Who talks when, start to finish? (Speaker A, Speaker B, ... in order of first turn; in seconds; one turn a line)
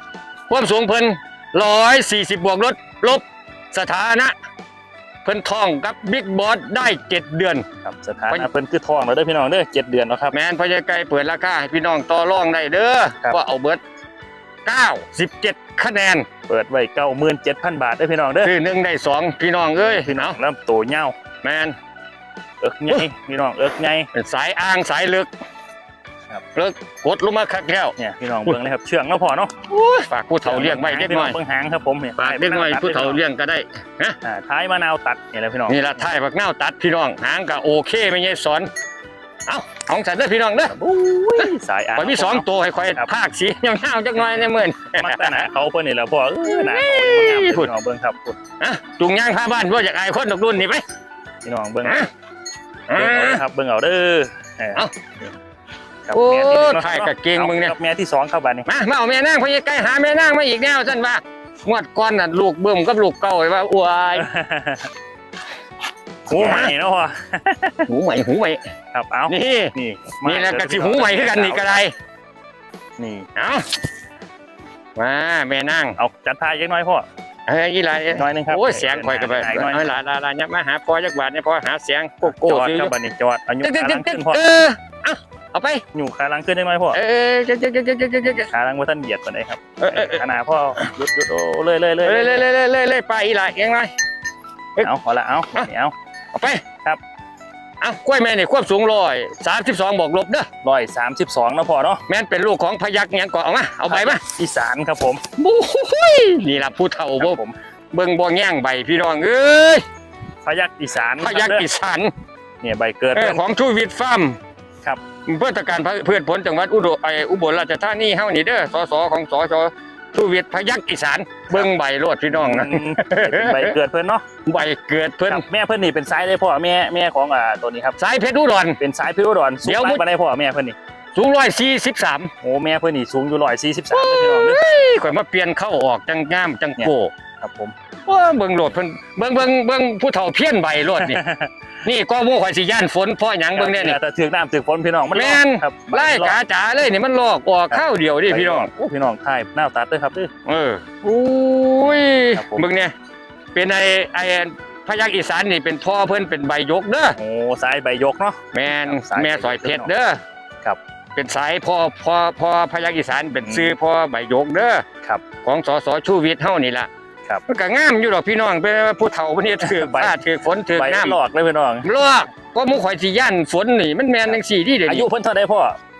Speaker A: 0.5-4.3
Speaker A: 5.2-7.6
Speaker B: 7.8-10.3
Speaker A: 10.3-13.8
Speaker A: 14.6-16.3
Speaker B: 16.5-18.5
Speaker A: 18.4-20.4
Speaker B: 19.8-21.1
Speaker A: 21.4-21.8
Speaker B: 22.6-24.1
Speaker A: 24.1-25.3
Speaker A: 26.5-27.9
Speaker B: 28.0-29.5
Speaker A: 29.7-31.4
Speaker B: 30.4-33.2
Speaker A: 32.2-34.1
Speaker B: 34.2-36.1
Speaker A: 35.7-38.7
Speaker A: 39.5-40.7
Speaker B: 40.7-43.1
Speaker A: 41.4-45.5
Speaker B: 45.0-48.4
Speaker A: 46.4-47.7
Speaker A: 48.6-50.8
Speaker B: 51.4-52.1
Speaker A: 51.8-52.1
Speaker A: 52.9-53.4
Speaker B: 52.9-55.3
Speaker B: 56.0-58.7
Speaker A: 56.1-57.7
Speaker A: 58.7-64.3
Speaker B: 64.2-64.9
Speaker B: 66.2-67.9
Speaker A: 66.3-66.7
Speaker A: 67.9-68.6
Speaker B: 68.9-71.8
Speaker A: 69.3-71.9
Speaker B: 73.0-73.3
Speaker A: 73.3-73.7
Speaker A: 75.0-76.0
Speaker B: 76.0-77.0
Speaker A: 77.5-82.9
Speaker B: 78.1-79.8
Speaker B: 82.2-84.4
Speaker A: 83.6-85.8
Speaker B: 85.9-87.0
Speaker A: 86.9-88.5
Speaker B: 88.2-92.5
Speaker A: 89.8-90.2
Speaker A: 92.0-93.9
Speaker B: 94.8-95.9
Speaker A: 96.3-96.6
Speaker A: 97.8-100.5
Speaker B: 100.6-102.0
Speaker A: 102.1-104.2
Speaker B: 103.9-105.2
Speaker A: 105.4-107.4
Speaker B: 107.2-107.5
Speaker A: 107.9-109.8
Speaker B: 110.4-111.7
Speaker A: 111.2-112.1
Speaker B: 112.6-113.4
Speaker A: 113.1-114.4
Speaker A: 115.2-123.8
Speaker B: 122.3-124.2
Speaker A: 124.5-125.4
Speaker B: 125.3-128.0
Speaker A: 128.0-128.8
Speaker B: 128.8-130.8
Speaker A: 129.6-130.0
Speaker A: 131.1-132.3
Speaker B: 132.4-134.6
Speaker A: 133.9-137.1
Speaker B: 136.8-137.7
Speaker A: 138.1-141.2
Speaker B: 141.0-141.5
Speaker A: 141.8-144.0
Speaker B: 143.5-146.4
Speaker A: 145.1-148.7
Speaker B: 147.7-150.3
Speaker A: 150.4-152.9
Speaker B: 151.8-152.6
Speaker A: 153.5-157.2
Speaker B: 157.2-159.9
Speaker A: 158.5-160.2
Speaker A: 161.2-164.8
Speaker B: 163.4-163.7
Speaker A: 165.4-166.9
Speaker A: 167.5-171.2
Speaker B: 169.6-170.2
Speaker B: 170.7-171.9
Speaker A: 171.8-175.1
Speaker B: 174.3-175.8